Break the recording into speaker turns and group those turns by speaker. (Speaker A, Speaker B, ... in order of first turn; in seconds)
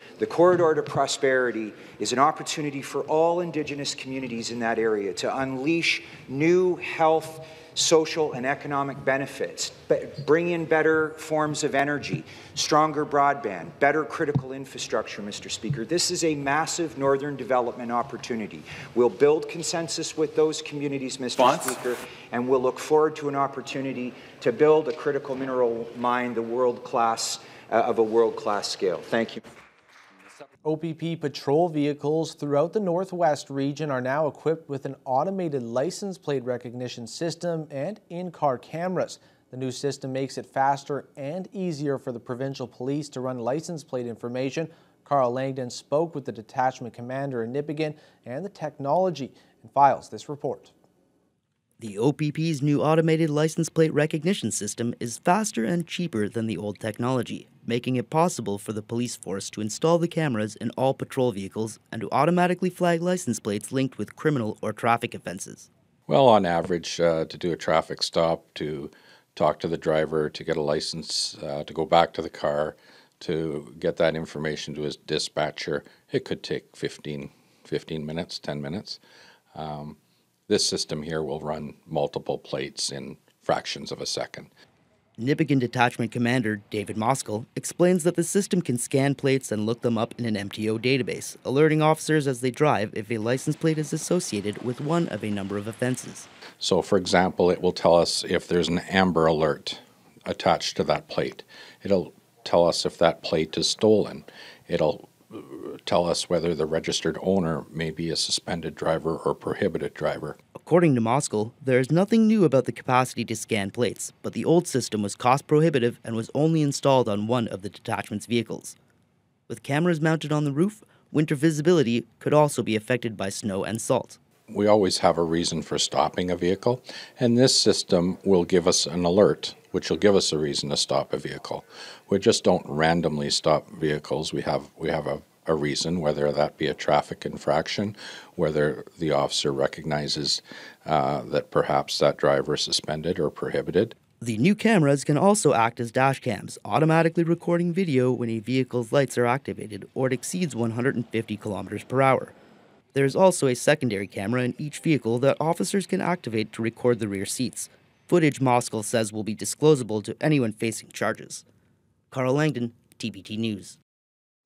Speaker A: 0.2-29.4
Speaker B: 30.6-50.7
Speaker C: 51.8-65.7, 85.2-96.3, 110.5-118.8, 119.5-124.2, 144.2-152.3, 152.9-161.4, 162.1-163.8
Speaker D: 66.1-79.0, 79.5-84.5, 96.6-110.4, 124.5-144.0